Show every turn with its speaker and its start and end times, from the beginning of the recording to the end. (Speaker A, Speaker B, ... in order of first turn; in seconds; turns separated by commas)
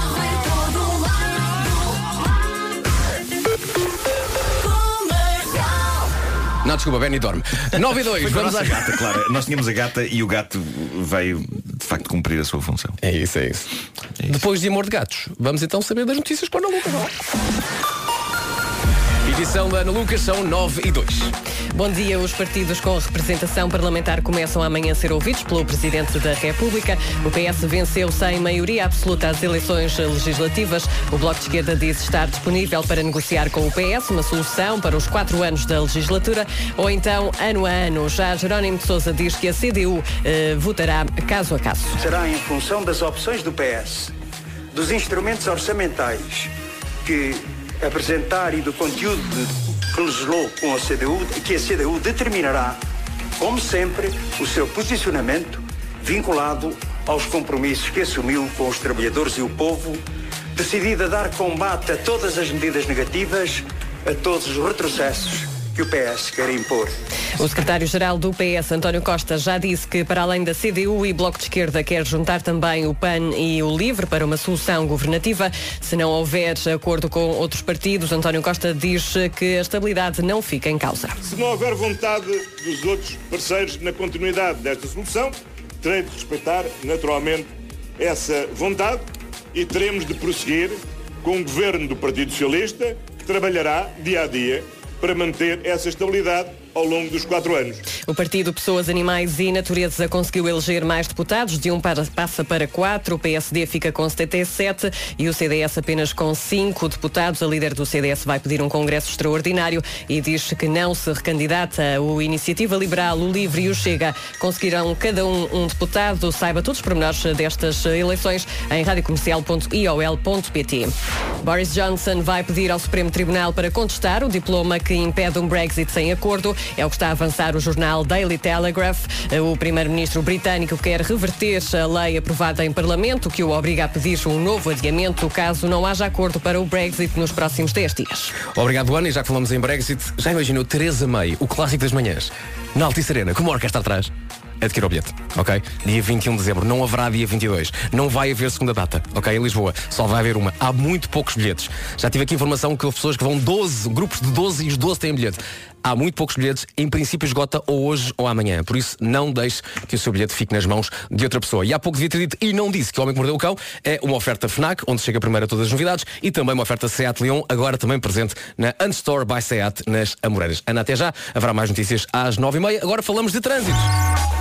Speaker A: 6.6-9.0, Speaker B: 8.1-13.0, Speaker A: 13.0-13.7, Speaker A: 14.3-17.1, Speaker A: 19.2-21.3, Speaker C: 21.7-42.0, Speaker D: 42.0-44.1, Speaker D: 44.7-46.5, Speaker D: 47.0-52.8, Speaker D: 53.4-60.0, Speaker D: 60.5-66.9, Speaker C: 67.4-81.2, Speaker E: 81.2-97.8, Speaker C: 98.0-138.4, Speaker A: 138.5-144.1, Speaker A: 144.6-173.9